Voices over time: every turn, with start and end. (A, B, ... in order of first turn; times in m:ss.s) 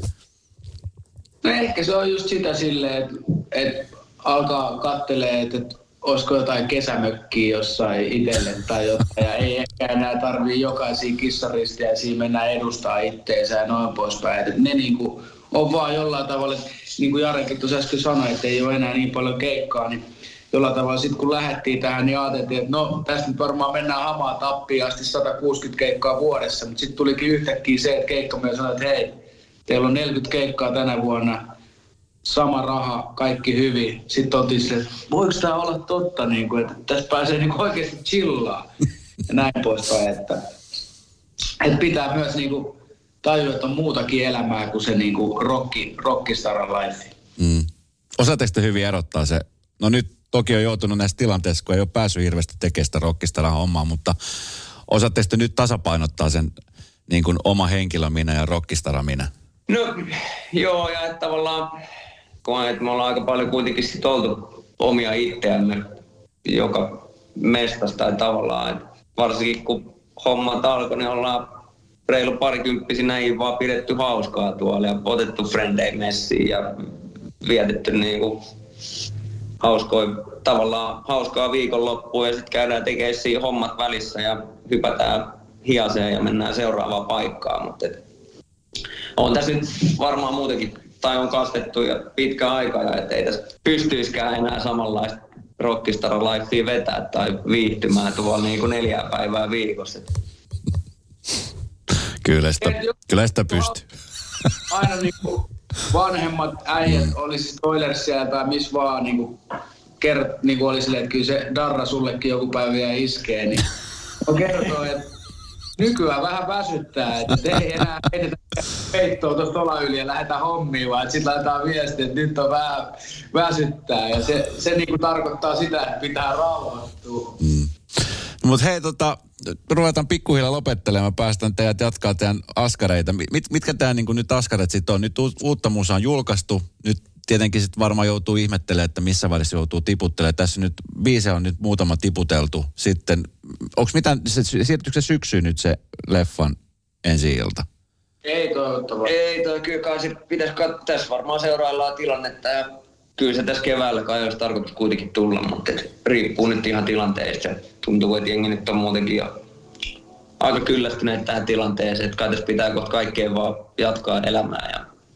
0:01.4-0:29.1 A
0:29.7-0:31.4 A
0:32.2-0:38.7 A
0:39.3-0:40.4 A
0:41.6-0:47.1 A
0:47.4-0:54.1 B
0:54.9-0:56.5 B
0:57.1-0:59.3 B
0:59.7-1:01.7 C
1:02.4-1:05.8 C
1:06.4-1:11.5 C
1:12.1-1:16.8 C
1:17.4-1:18.4 C
1:19.6-1:28.0 C
1:29.2-1:40.1 C
1:42.2-1:43.8 B
1:42.6-1:42.9 A
1:43.5-1:43.7 A
1:44.7-1:49.4 A
1:50.0-1:53.7 A
1:54.2-1:55.1 A
1:55.8-2:07.4 A
2:07.4-2:07.7 B
2:08.4-2:27.6 B
2:28.2-2:29.1 A
2:29.0-2:39.3 C
2:40.4-2:44.8 C